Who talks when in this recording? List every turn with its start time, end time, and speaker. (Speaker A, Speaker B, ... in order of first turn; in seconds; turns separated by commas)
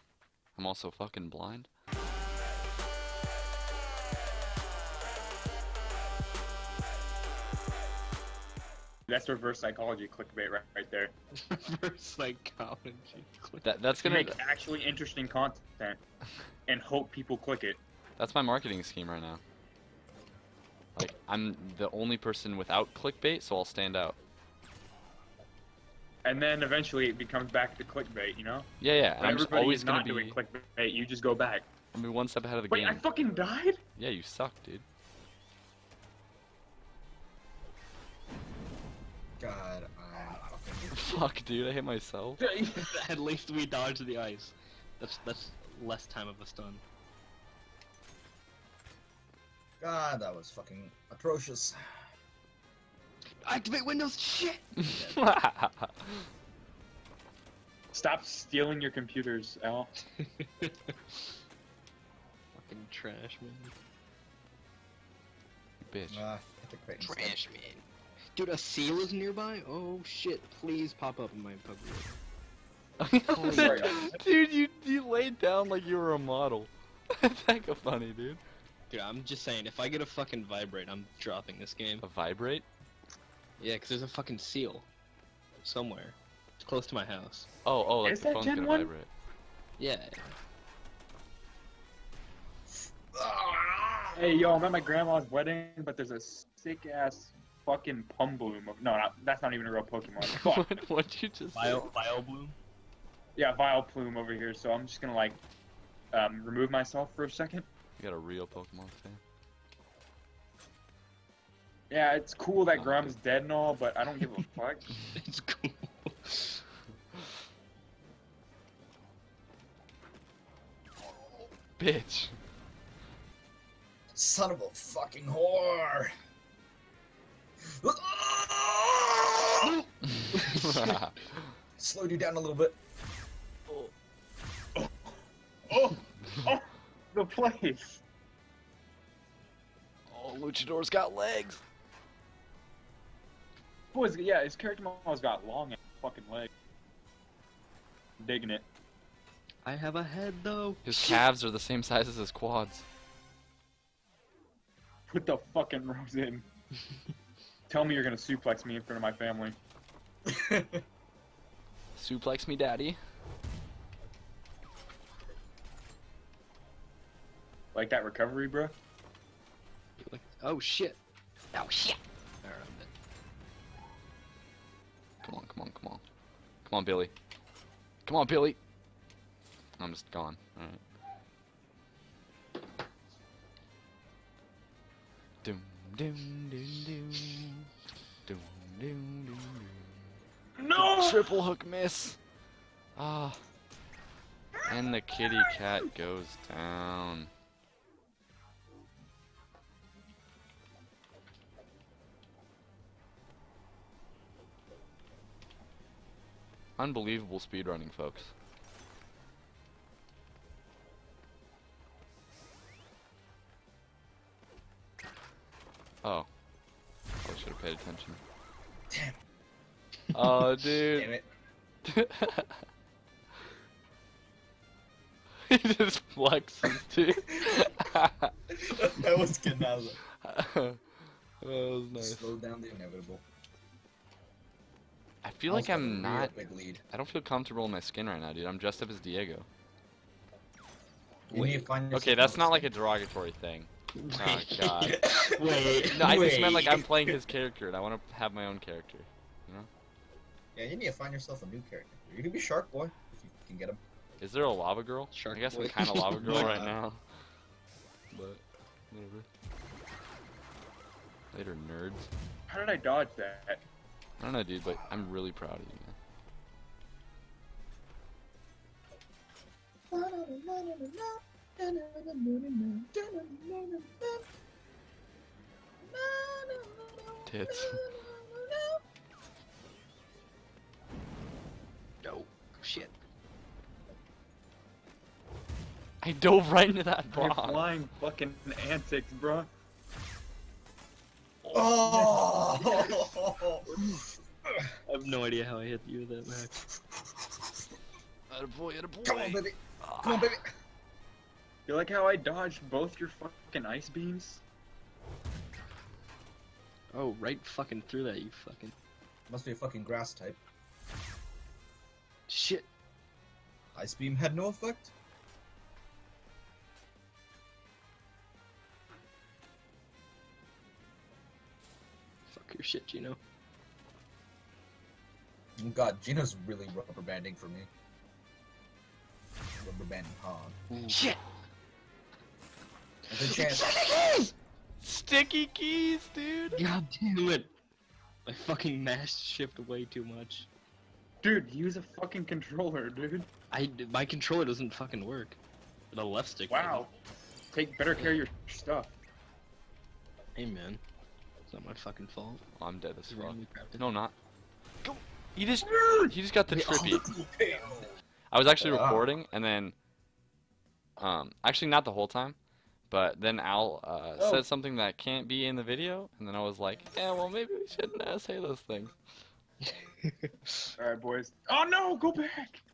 Speaker A: 0.5-1.7, Speaker B: 9.1-11.1, Speaker C: 11.4-13.7, Speaker A: 13.6-14.4, Speaker B: 14.0-16.0, Speaker B: 16.7-17.8, Speaker A: 18.2-19.4, Speaker A: 20.9-24.2, Speaker B: 26.2-31.6, Speaker A: 28.8-30.4, Speaker A: 31.9-33.1, Speaker B: 32.7-33.8, Speaker A: 34.0-34.8, Speaker D: 39.4-41.0, Speaker A: 40.9-42.4, Speaker B: 42.4-42.9, Speaker C: 42.7-46.8, Speaker D: 49.8-51.9, Speaker C: 53.2-55.1, Speaker A: 54.8-56.2, Speaker B: 57.9-59.9, Speaker C: 60.1-61.2, Speaker C: 62.5-63.7, Speaker A: 65.8-66.2, Speaker D: 66.1-67.4, Speaker C: 67.0-72.2, Speaker A: 73.0-78.4, Speaker C: 73.2-74.1, Speaker B: 73.4-74.2, Speaker C: 78.9-82.0, Speaker A: 82.0-82.7, Speaker C: 83.6-84.9, Speaker C: 85.6-87.5, Speaker A: 87.6-89.1, Speaker B: 88.0-88.9, Speaker C: 89.8-90.3, Speaker D: 93.1-94.3, Speaker B: 94.1-100.7, Speaker A: 100.2-101.9, Speaker C: 101.5-102.5, Speaker B: 103.3-105.4, Speaker B: 106.1-107.7, Speaker A: 108.0-109.2, Speaker B: 111.9-114.9, Speaker A: 112.7-113.2, Speaker C: 115.1-116.6, Speaker A: 121.8-122.4, Speaker D: 124.1-126.1, Speaker D: 127.6-129.8, Speaker C: 129.6-130.9, Speaker A: 130.2-131.4, Speaker D: 131.8-132.8, Speaker B: 135.7-138.0, Speaker A: 140.1-141.6, Speaker B: 143.9-146.5, Speaker B: 148.2-148.7, Speaker C: 149.6-151.2, Speaker A: 150.8-152.8, Speaker B: 155.1-156.4, Speaker B: 157.7-159.6, Speaker D: 160.3-160.8, Speaker A: 161.9-163.0, Speaker B: 167.7-168.7, Speaker C: 170.0-171.0, Speaker C: 171.5-172.9, Speaker A: 175.2-176.0, Speaker A: 176.7-177.1, Speaker A: 178.1-178.6, Speaker A: 179.8-180.8, Speaker A: 185.4-187.7, Speaker A: 188.2-190.0, Speaker B: 190.6-191.4, Speaker A: 190.8-192.2, Speaker A: 192.9-193.4, Speaker A: 194.6-197.3, Speaker B: 195.1-195.6, Speaker A: 206.8-208.3, Speaker A: 216.0-216.3, Speaker A: 217.2-218.2, Speaker D: 218.9-219.2, Speaker A: 220.1-221.1, Speaker D: 220.9-221.2, Speaker A: 221.8-222.6, Speaker A: 225.5-228.3, Speaker D: 228.6-230.0, Speaker A: 230.1-230.8, Speaker A: 231.4-232.3, Speaker D: 231.9-233.2, Speaker A: 235.2-236.3, Speaker D: 235.5-236.8, Speaker A: 236.9-239.5, Speaker D: 241.3-242.7, Speaker C: 241.3-241.7, Speaker A: 241.9-245.0, Speaker C: 244.0-246.0, Speaker D: 245.0-247.2, Speaker A: 245.9-249.7, Speaker D: 250.5-253.8, Speaker A: 254.2-257.0, Speaker C: 255.1-256.6, Speaker D: 256.1-256.7, Speaker A: 258.1-259.2, Speaker A: 261.3-262.1, Speaker B: 262.5-263.6, Speaker A: 264.2-265.9, Speaker D: 269.9-274.2, Speaker D: 275.9-278.8, Speaker A: 277.2-277.8, Speaker C: 282.0-282.9, Speaker A: 286.0-287.7, Speaker B: 287.1-289.5, Speaker A: 291.4-291.8, Speaker D: 291.5-294.6, Speaker C: 292.6-293.0, Speaker C: 294.9-296.6, Speaker A: 298.3-300.3, Speaker D: 299.0-300.5, Speaker B: 301.7-304.4, Speaker C: 306.9-308.7, Speaker D: 309.3-310.4, Speaker C: 312.3-312.7, Speaker D: 313.7-314.9, Speaker C: 322.3-323.2, Speaker D: 325.6-327.7, Speaker D: 329.5-330.6, Speaker C: 330.9-331.2, Speaker D: 333.1-333.9, Speaker C: 333.1-334.3, Speaker A: 334.8-336.6, Speaker C: 336.5-337.5, Speaker C: 338.2-340.5, Speaker B: 341.2-343.3, Speaker C: 343.5-345.4, Speaker C: 345.9-346.8, Speaker B: 346.5-346.9, Speaker B: 347.5-348.9, Speaker C: 347.9-348.2, Speaker C: 350.4-350.8, Speaker C: 351.5-352.4, Speaker A: 352.6-354.1, Speaker C: 353.1-353.8, Speaker A: 354.8-357.1, Speaker D: 356.5-358.0, Speaker A: 358.3-359.7, Speaker D: 358.5-359.1, Speaker A: 361.0-362.4, Speaker A: 362.9-368.9, Speaker B: 364.2-364.4, Speaker C: 369.6-370.6, Speaker B: 370.8-372.6